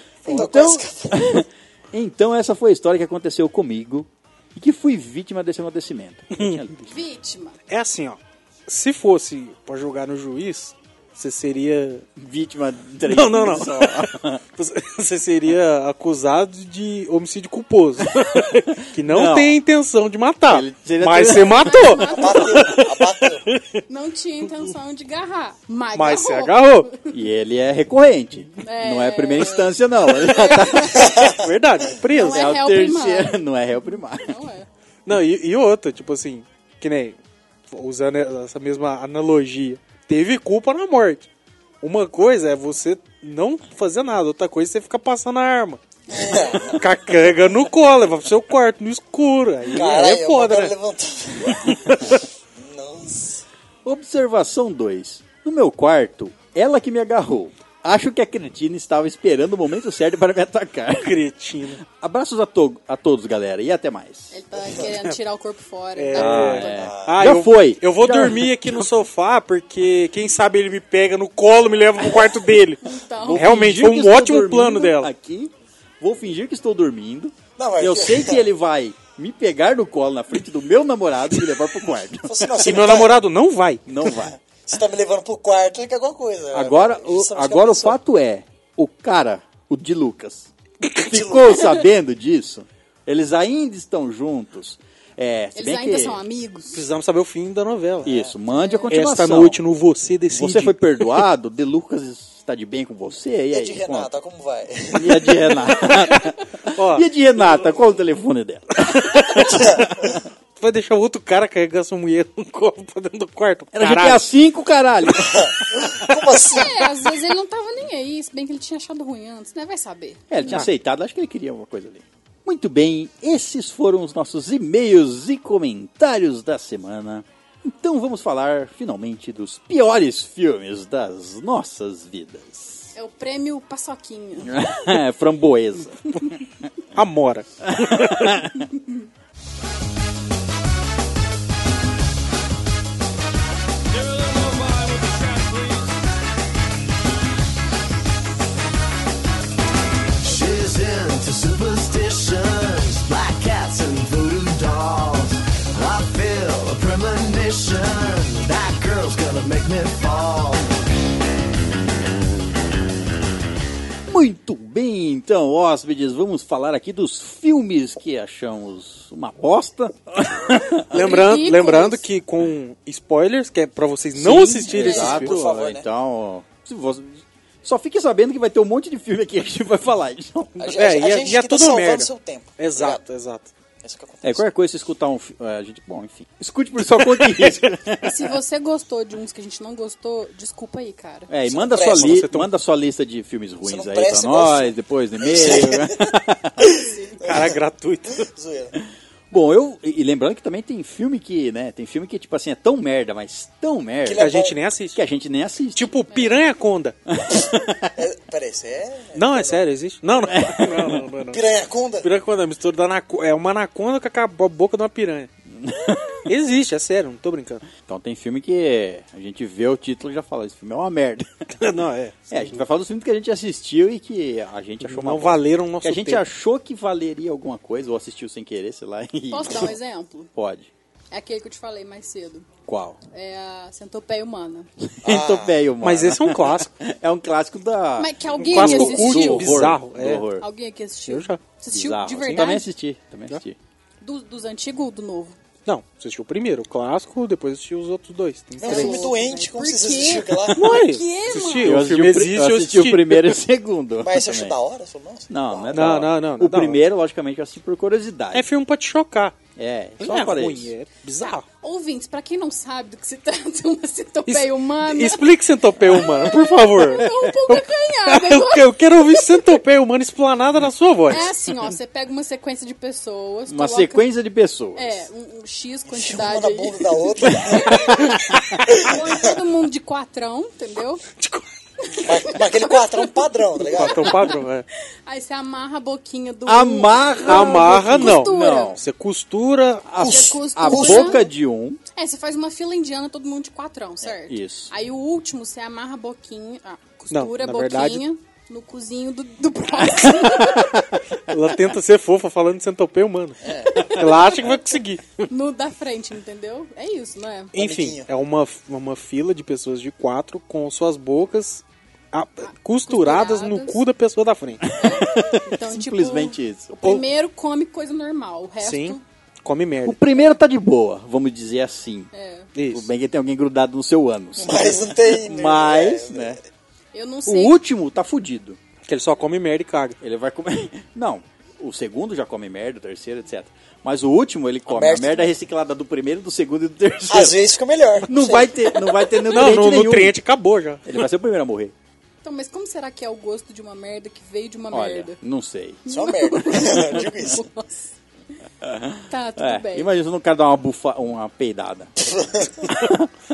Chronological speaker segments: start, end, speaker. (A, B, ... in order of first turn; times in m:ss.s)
0:00.2-0:07.0 A
0:00.3-0:01.4 B
0:06.9-0:07.6 C
0:07.7-0:12.1 D
0:12.2-0:14.4 A
0:13.1-0:23.6 D
0:19.1-0:19.6 A
0:20.5-0:22.1 A
0:21.6-0:22.8 C
0:22.1-0:23.5 B
0:23.9-0:27.0 C
0:26.0-0:26.9 D
0:27.1-0:31.3 A
0:28.6-0:31.2 C
0:31.0-0:31.3 B
0:31.2-0:32.5 D
0:32.1-0:33.4 C
0:32.2-0:34.4 A
0:34.1-0:34.7 C
0:35.1-0:37.2 D
0:37.7-0:41.3 D
0:41.8-0:45.8 D
0:46.1-0:46.8 C
0:46.1-0:46.8 B
0:46.6-0:50.8 D
0:49.7-0:53.4 B
0:51.6-0:52.0 D
0:53.8-1:01.2 A
1:01.0-1:01.8 D
1:01.8-1:04.3 A
1:04.3-1:06.9 C
1:06.0-1:15.1 D
1:06.1-1:08.9 A
1:06.7-1:07.2 B
1:12.8-1:13.5 C
1:13.2-1:22.6 A
1:17.6-1:18.5 B
1:22.2-1:23.2 B
1:22.6-1:23.8 D
1:23.9-1:24.4 A
1:24.6-1:28.0 B
1:26.5-1:36.2 A
1:31.1-1:31.7 B
1:35.6-1:36.8 C
1:36.7-1:38.2 D
1:38.0-1:39.6 A
1:38.1-1:38.3 B
1:38.5-1:38.9 C
1:38.9-1:41.2 D
1:40.3-1:44.1 A
1:43.5-1:45.4 B
1:44.9-1:50.2 A
1:46.8-1:47.1 D
1:48.9-1:49.4 D
1:49.4-1:50.2 B
1:50.6-1:54.3 D
1:53.7-1:56.0 A
1:55.2-1:56.9 B
1:56.5-2:00.5 C
2:00.3-2:12.9 A
2:13.0-2:14.7 C
2:14.4-2:16.4 A
2:17.0-2:18.4 D
2:17.7-2:18.7 A
2:30.2-2:40.8 E
2:44.1-2:50.9 A
2:50.9-2:52.0 C
2:50.9-2:55.4 D
2:54.2-3:00.7 A
2:54.8-2:55.2 C
2:54.8-2:55.9 B
3:00.6-3:03.0 B
3:00.6-3:03.5 D
3:03.8-3:04.5 B
3:04.2-3:08.3 A
3:06.8-3:07.7 D
3:08.0-3:11.3 C
3:11.3-3:16.7 A
3:11.5-3:12.2 B
3:12.0-3:12.5 D
3:13.6-3:17.6 B
3:16.8-3:17.2 C
3:17.2-3:18.3 D
3:18.1-3:18.8 B
3:19.3-3:24.3 A
3:24.0-3:24.6 B
3:24.2-3:25.0 D
3:24.9-3:26.0 A
3:25.8-3:27.0 D
3:26.1-3:26.4 C
3:27.1-3:27.9 A
3:28.0-3:29.6 B
3:29.2-3:31.4 D
3:30.2-3:31.1 A
3:31.3-3:32.1 B
3:32.0-3:35.3 D
3:35.5-3:36.2 A
3:36.3-3:37.7 D
3:37.9-3:41.3 A
3:41.6-3:42.6 D
3:42.3-3:49.8 A
3:44.8-3:46.2 D
3:49.3-3:50.3 C
3:50.4-3:50.7 A
3:51.1-3:52.5 C
3:52.7-3:53.0 A
3:53.1-3:54.7 C
3:54.8-4:00.5 A
3:55.0-3:55.6 B
3:55.8-3:56.7 D
3:58.0-3:59.6 C
3:58.5-4:00.3 D
4:00.4-4:02.7 C
4:01.1-4:01.4 D
4:01.7-4:03.6 A
4:04.0-4:05.4 C
4:05.7-4:09.1 D
4:08.6-4:10.8 B
4:08.6-4:11.8 C
4:10.6-4:13.3 D
4:11.6-4:14.6 A
4:14.0-4:16.0 B
4:15.3-4:18.5 A
4:15.7-4:16.8 D
4:18.3-4:19.4 D
4:19.6-4:20.7 A
4:20.0-4:21.4 D
4:21.2-4:25.3 C
4:24.3-4:27.1 D
4:25.8-4:29.6 C
4:27.0-4:27.3 A
4:28.1-4:31.3 D
4:31.1-4:34.1 C
4:33.5-4:35.0 A
4:34.8-4:41.0 C
4:35.9-4:39.3 B
4:41.8-4:43.2 C
4:42.0-4:44.2 B
4:43.7-4:44.7 D
4:43.8-4:44.3 C
4:45.1-4:48.8 C
4:46.5-4:48.8 A
4:47.2-4:49.9 D
4:49.9-4:51.8 A
4:50.0-4:51.2 B
4:50.0-4:51.3 C
4:52.0-5:00.9 C
4:54.1-4:54.7 A
4:57.1-4:58.0 D
4:59.9-5:01.0 A
5:01.3-5:05.3 D
5:03.4-5:03.9 B
5:03.8-5:04.0 A
5:03.8-5:04.5 C
5:05.2-5:07.5 C
5:07.5-5:14.7 D
5:07.6-5:08.1 B
5:12.4-5:13.8 C
5:14.7-5:16.8 A
5:14.8-5:19.0 C
5:18.6-5:20.0 D
5:19.8-5:22.1 A
5:22.1-5:22.5 C
5:22.6-5:22.9 D
5:22.7-5:26.4 A
5:24.4-5:26.4 B
5:26.9-5:27.6 C
5:27.3-5:28.6 A
5:28.9-5:30.0 D
5:30.0-5:37.4 A
5:34.7-5:35.3 B
5:37.1-5:38.5 B
5:38.0-5:40.2 A
5:39.2-5:41.0 D
5:40.8-5:41.7 A
5:42.2-5:45.2 C
5:44.7-5:45.9 A
5:45.9-5:47.9 C
5:45.9-5:47.4 B
5:48.6-5:52.0 A
5:49.1-5:49.9 C
5:52.0-5:52.7 B
5:52.6-5:53.1 A